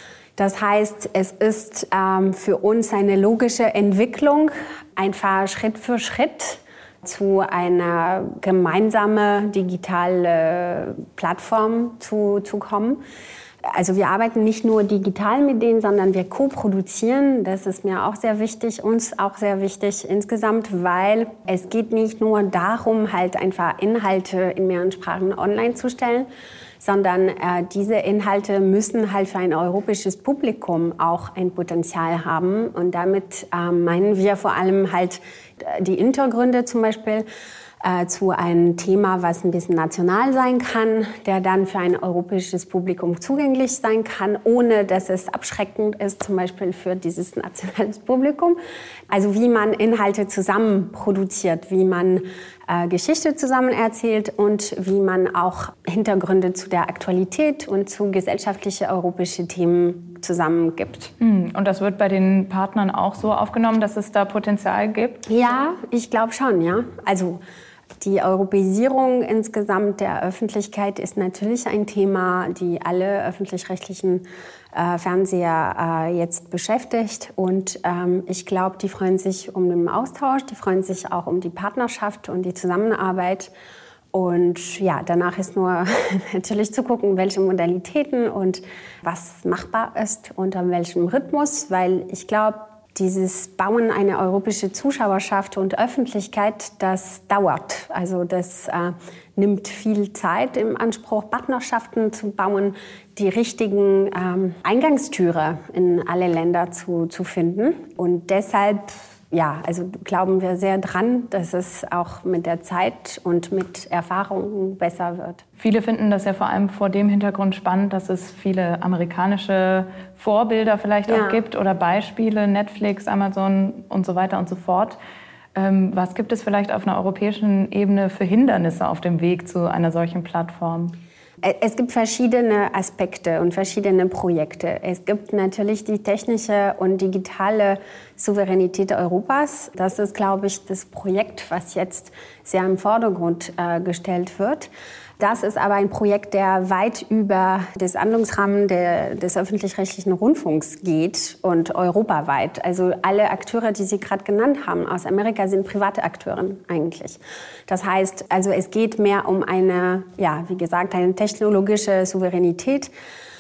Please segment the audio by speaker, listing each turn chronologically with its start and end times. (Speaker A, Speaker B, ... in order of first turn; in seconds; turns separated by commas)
Speaker A: 0.4-13.0, Speaker A: 13.7-26.3, Speaker A: 26.8-37.2, Speaker A: 37.8-48.6, Speaker A: 49.1-61.1, Speaker B: 61.2-65.2, Speaker A: 65.3-67.4, Speaker A: 68.0-83.5, Speaker A: 84.1-115.4, Speaker B: 115.6-125.0, Speaker A: 121.1-121.4, Speaker B: 125.5-130.9, Speaker A: 131.4-144.7, Speaker A: 145.2-162.9